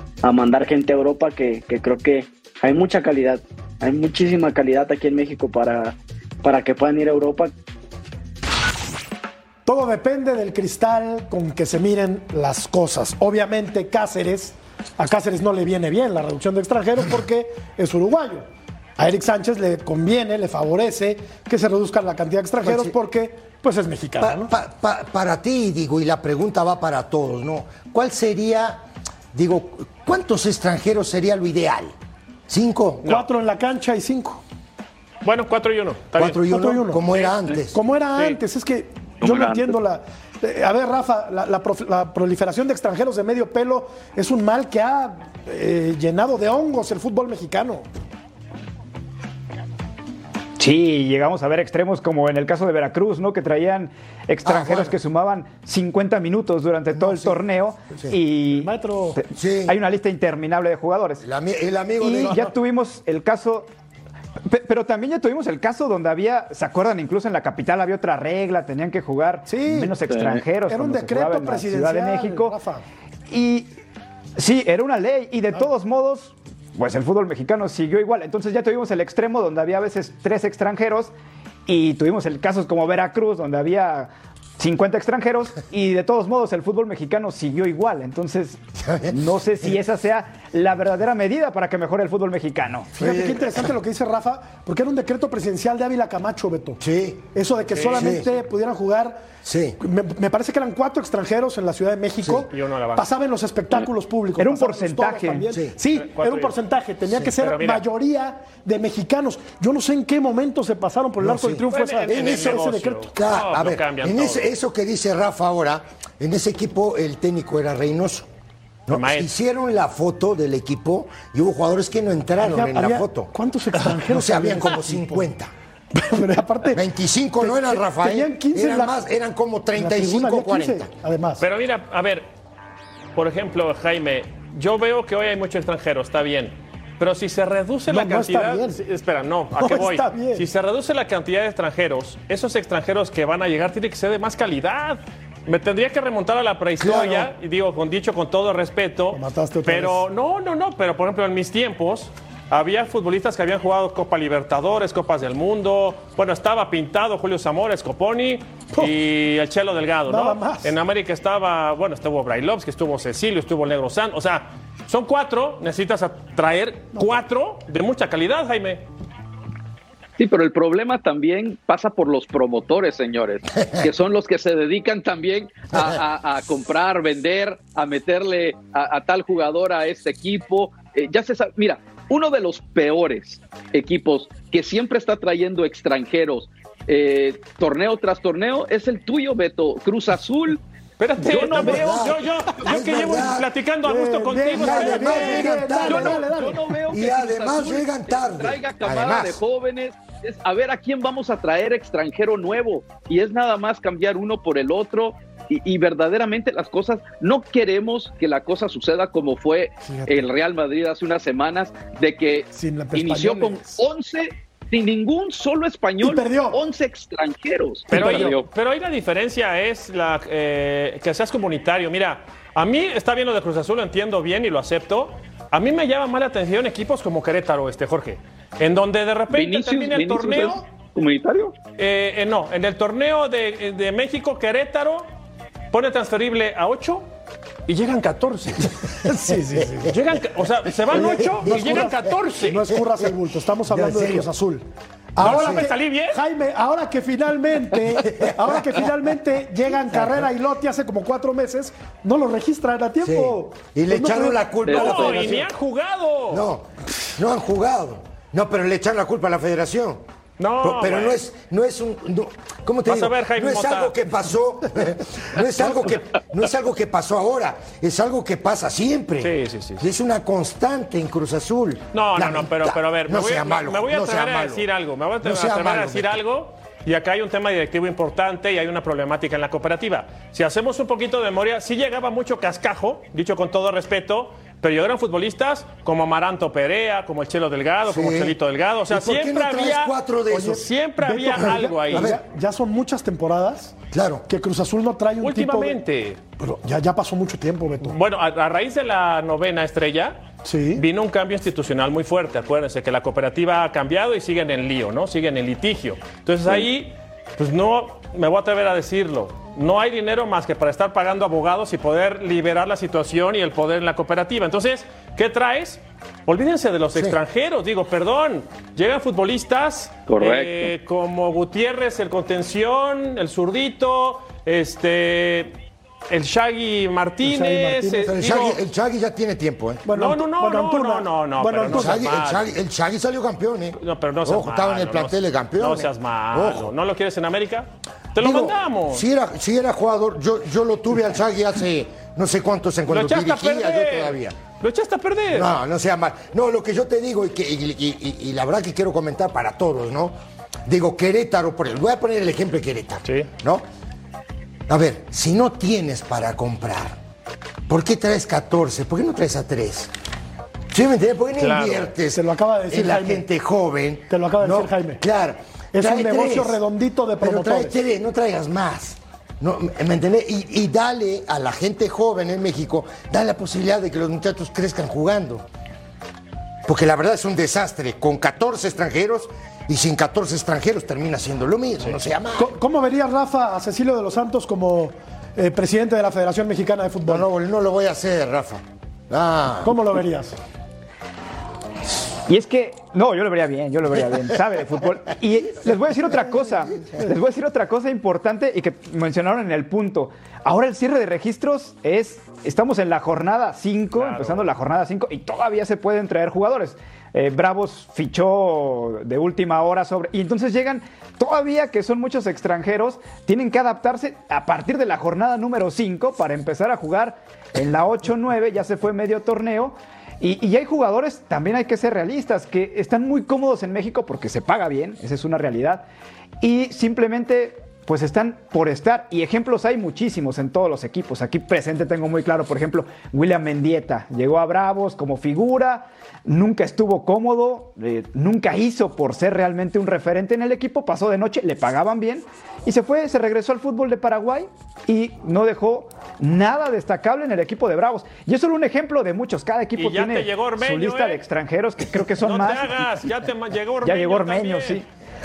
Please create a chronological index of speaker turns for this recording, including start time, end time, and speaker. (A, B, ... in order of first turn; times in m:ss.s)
0:00.2-0:07.5 A
0:09.6-0:18.4 B
0:19.0-0:24.5 B
0:22.6-0:22.9 C
0:24.2-0:28.8 C
0:29.3-0:31.9 C
0:32.5-0:33.1 C
0:33.0-0:34.4 B
0:35.2-0:36.4 D
0:36.1-0:37.8 C
0:36.4-0:37.0 B
0:37.1-0:37.6 D
0:37.7-0:47.8 B
0:39.2-0:39.7 E
0:50.6-1:01.2 F
0:54.4-0:54.9 C
0:56.9-0:57.4 C
0:58.5-0:59.2 B
0:59.4-0:59.8 C
1:01.2-1:02.4 C
1:02.0-1:03.7 F
1:02.2-1:02.5 B
1:04.5-1:12.6 F
1:09.5-1:09.9 B
1:10.1-1:10.4 E
1:10.6-1:12.8 B
1:13.3-1:13.7 F
1:14.4-1:21.1 F
1:21.7-1:32.9 F
1:28.8-1:29.2 C
1:33.0-1:33.7 C
1:33.0-1:36.8 B
1:36.8-1:37.3 C
1:37.3-1:39.2 B
1:37.7-1:38.2 D
1:37.8-1:38.3 C
1:39.4-1:39.8 C
1:39.8-1:53.1 B
1:42.5-1:43.1 D
1:44.4-1:45.4 F
1:45.9-1:46.6 D
1:47.4-1:47.8 D
1:51.2-1:58.3 C
1:51.7-1:54.5 D
1:58.9-2:03.3 C
1:58.9-1:59.3 D
2:02.4-2:05.3 B
2:03.8-2:05.5 C
2:05.9-2:06.8 B
2:06.7-2:10.9 C
2:07.4-2:08.9 B
2:09.8-2:11.4 B
2:11.4-2:12.3 D
2:13.1-2:48.8 D
2:17.9-2:18.8 B
2:19.6-2:20.4 B
2:26.8-2:27.3 C
2:29.1-2:30.0 B
2:40.1-2:40.7 B
2:50.2-3:10.6 E
3:11.0-3:15.6 D
3:11.2-3:12.1 E
3:11.2-3:13.5 C
3:13.8-3:16.7 B
3:14.5-3:19.4 C
3:15.6-3:38.5 E
3:29.8-3:30.2 B
3:32.5-3:33.8 B
3:36.0-3:36.6 B
3:37.9-3:38.4 B
3:37.9-3:50.6 D
3:49.3-3:51.6 E
3:51.8-3:55.1 D
3:55.7-3:57.0 D
3:57.7-3:58.8 D
3:59.0-4:00.0 B
3:59.6-3:59.9 C
3:59.9-4:02.7 D
4:00.8-4:03.1 C
4:00.9-4:15.3 B
4:03.7-4:04.3 C
4:05.2-4:05.7 C
4:05.2-4:06.2 D
4:08.0-4:08.8 C
4:09.9-4:10.3 C
4:13.0-4:15.5 C
4:14.7-4:15.2 E
4:14.7-4:16.5 D
4:16.3-4:20.0 C
4:20.4-4:21.2 D
4:20.6-4:34.7 C
4:22.8-4:24.0 D
4:29.2-4:29.8 D
4:31.9-4:52.1 D
4:35.2-4:36.2 C
4:47.8-4:48.4 C
4:48.9-4:50.6 C
4:50.3-4:55.8 B
4:51.3-4:52.2 C
4:53.9-4:54.2 C
4:55.2-4:56.2 D
4:56.4-4:58.0 B
4:57.8-5:00.2 D
5:00.4-5:00.8 B
5:00.7-5:25.6 D
5:20.1-5:20.7 E
5:26.1-5:28.6 D
5:27.2-5:28.2 B
5:28.0-5:29.8 C
5:29.9-5:32.0 B
5:29.9-5:32.5 D
5:31.7-5:36.7 C
5:33.8-5:39.1 D
5:38.2-5:44.4 C
5:42.9-5:45.5 D
5:45.3-5:50.1 C
5:50.6-5:53.6 C
5:54.7-5:57.0 C
5:57.7-5:59.9 C
6:00.7-6:06.6 C
6:01.4-6:01.9 D
6:02.1-6:03.2 B
6:04.1-6:05.0 B
6:05.7-6:07.7 B
6:07.2-6:15.4 C
6:16.6-6:22.5 C
6:22.4-6:27.2 B
6:27.1-6:29.8 C
6:29.6-6:30.4 B
6:32.3-7:05.8 F
6:43.9-6:44.5 D
7:06.4-7:32.9 F
7:29.8-7:31.2 D
7:32.2-7:34.8 D
7:33.8-7:34.9 F